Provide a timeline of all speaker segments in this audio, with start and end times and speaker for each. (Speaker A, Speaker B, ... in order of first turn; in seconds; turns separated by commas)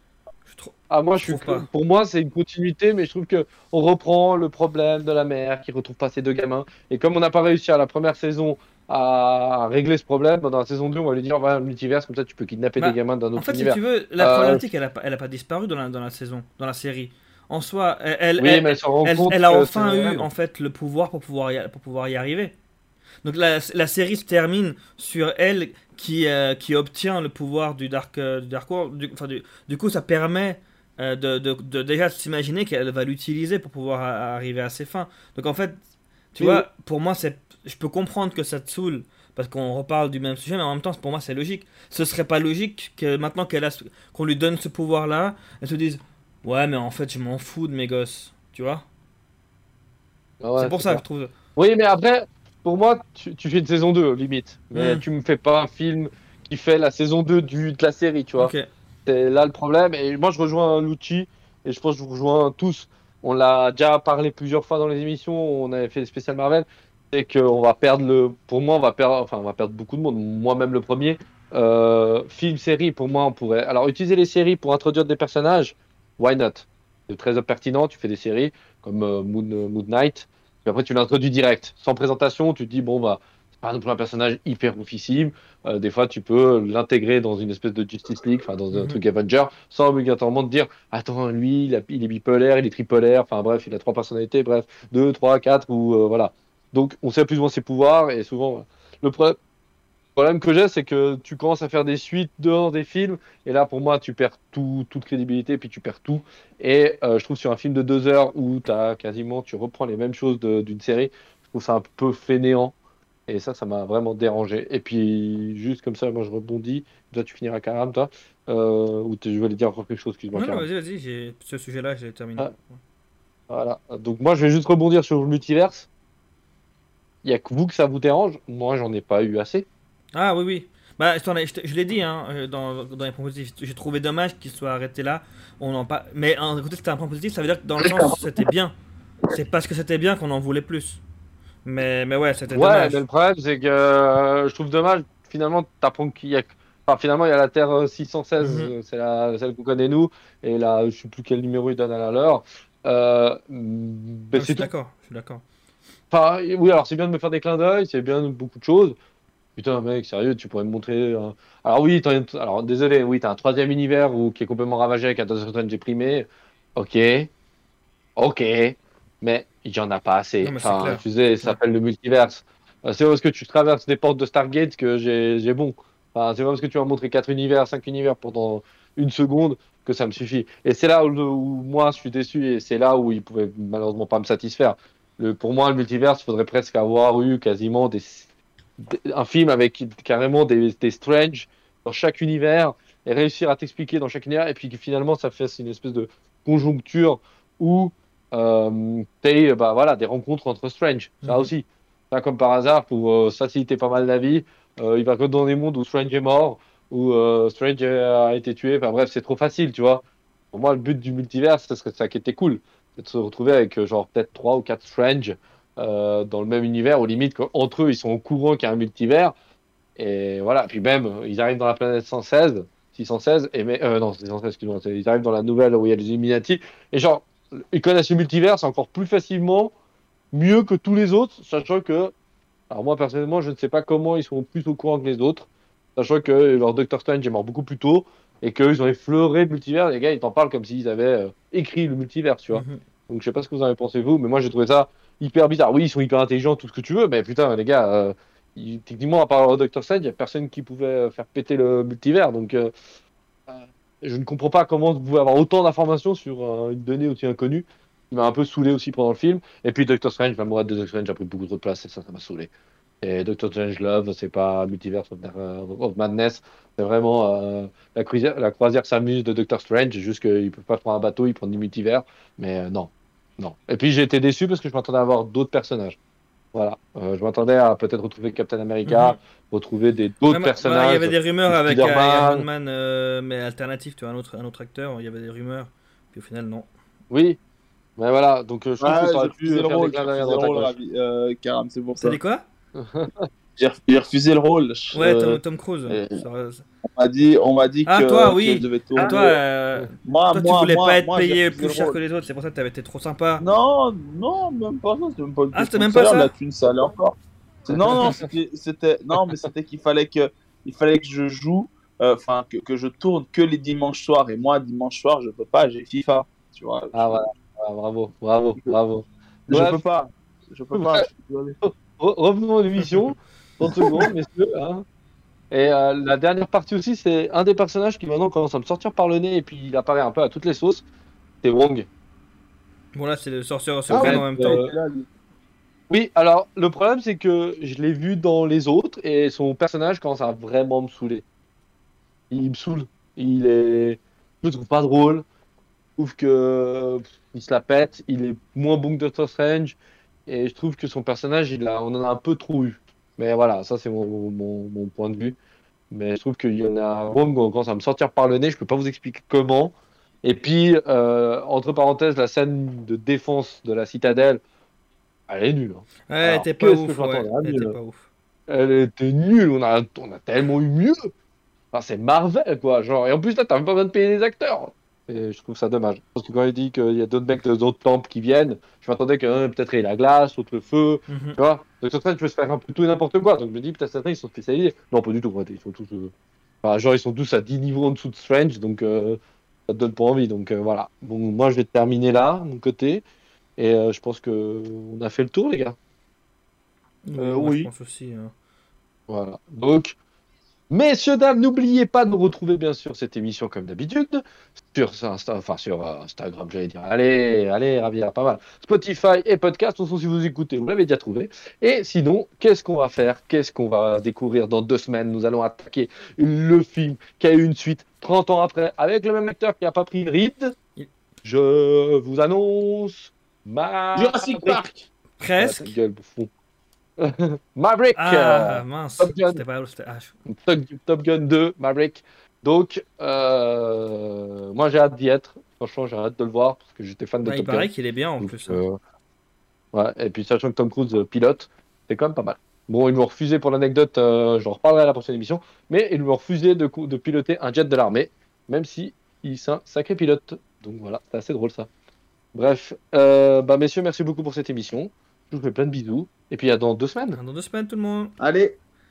Speaker A: 0.5-1.7, Speaker B: 0.9-14.6, Speaker A: 12.8-22.5, Speaker B: 18.4-20.3, Speaker A: 23.2-35.8, Speaker A: 36.3-48.8, Speaker B: 36.4-36.6, Speaker B: 50.4-51.0, Speaker A: 50.6-51.3, Speaker B: 51.5-58.5, Speaker A: 54.7-55.0, Speaker A: 58.4-58.6, Speaker B: 59.0-99.4, Speaker A: 88.7-89.0, Speaker B: 100.2-112.7, Speaker B: 113.3-120.7, Speaker A: 120.3-122.8, Speaker B: 123.5-125.9, Speaker B: 127.2-129.7, Speaker A: 130.1-138.7, Speaker B: 137.8-138.2, Speaker A: 139.3-141.0, Speaker A: 141.6-143.0, Speaker B: 142.5-154.7, Speaker A: 148.4-148.7, Speaker A: 154.3-155.4, Speaker B: 156.1-158.9, Speaker B: 159.6-167.3, Speaker B: 168.2-188.3, Speaker A: 170.4-171.6, Speaker B: 188.8-219.3, Speaker A: 201.2-201.5, Speaker B: 220.0-229.7, Speaker B: 230.3-232.1, Speaker B: 232.7-252.7, Speaker A: 242.5-242.8, Speaker B: 253.5-262.5, Speaker B: 263.0-276.0, Speaker B: 276.5-282.4, Speaker A: 278.9-279.1, Speaker A: 280.3-286.7, Speaker B: 287.1-287.4, Speaker B: 288.0-290.7, Speaker C: 288.8-292.2, Speaker A: 292.0-292.4, Speaker B: 292.8-293.3, Speaker C: 293.6-296.2, Speaker A: 294.9-296.6, Speaker C: 296.9-299.4, Speaker A: 297.9-303.4, Speaker B: 299.0-299.9, Speaker C: 300.0-302.0, Speaker C: 303.4-317.2, Speaker A: 305.5-306.3, Speaker B: 307.7-308.2, Speaker B: 316.9-319.8, Speaker C: 319.5-321.6, Speaker B: 320.7-321.0, Speaker B: 321.6-324.8, Speaker B: 325.5-330.8, Speaker B: 331.4-331.9, Speaker A: 332.9-334.6, Speaker B: 333.9-334.7, Speaker C: 333.9-335.1, Speaker B: 335.9-341.2, Speaker B: 342.3-345.2, Speaker B: 346.0-349.8, Speaker B: 350.3-355.4, Speaker B: 355.9-364.4, Speaker B: 365.3-367.8, Speaker A: 366.1-368.0, Speaker B: 368.5-371.1, Speaker B: 371.7-386.1, Speaker A: 381.1-381.4, Speaker B: 386.6-393.0, Speaker B: 393.6-395.8, Speaker A: 397.0-398.3, Speaker C: 397.2-397.7, Speaker B: 399.1-399.9, Speaker B: 400.7-420.5, Speaker B: 421.2-424.6, Speaker C: 423.9-424.9, Speaker A: 425.2-425.7, Speaker B: 425.4-426.3, Speaker B: 427.0-429.4, Speaker A: 428.0-430.1, Speaker B: 430.3-437.7, Speaker A: 437.2-438.6, Speaker B: 438.2-438.8, Speaker B: 439.7-451.7, Speaker B: 452.3-457.2, Speaker A: 457.1-458.1, Speaker C: 458.2-458.5